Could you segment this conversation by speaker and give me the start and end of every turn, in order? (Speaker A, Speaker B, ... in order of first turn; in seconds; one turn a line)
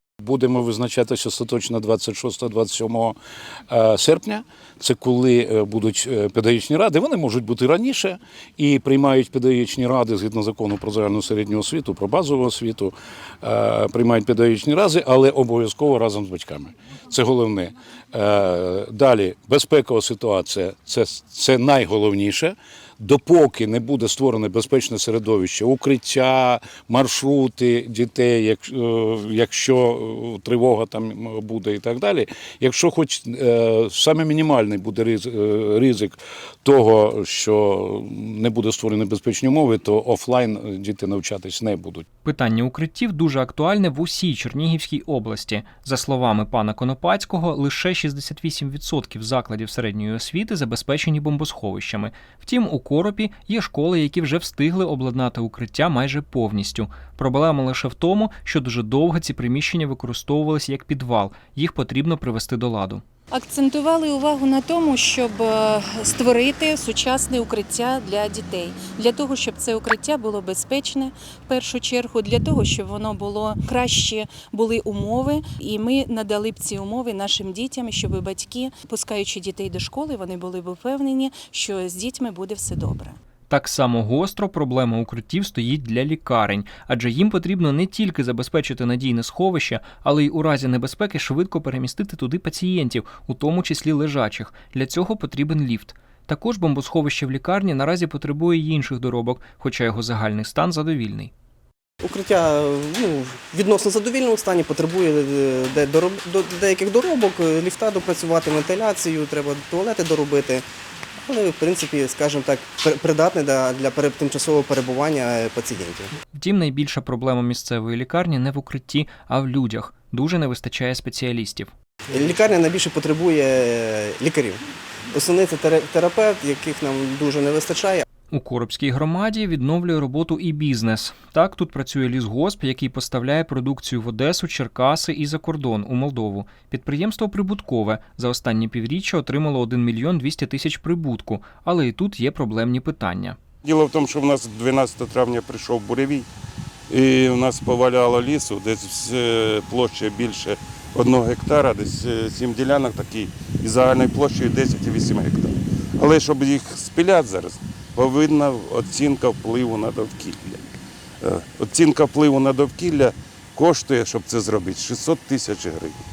Speaker A: 0.2-3.2
Speaker A: 3.7-42.0
Speaker B: 42.2-63.0
Speaker C: 63.3-83.2
Speaker B: 83.5-101.3
Speaker D: 102.0-110.6
Speaker D: 111.3-116.1
Speaker B: 116.3-121.7
Speaker D: 122.2-124.6
Speaker D: 125.2-128.1
Speaker B: 128.3-143.4
Speaker E: 143.7-146.2
Speaker E: 146.9-160.6
Speaker E: 161.2-165.9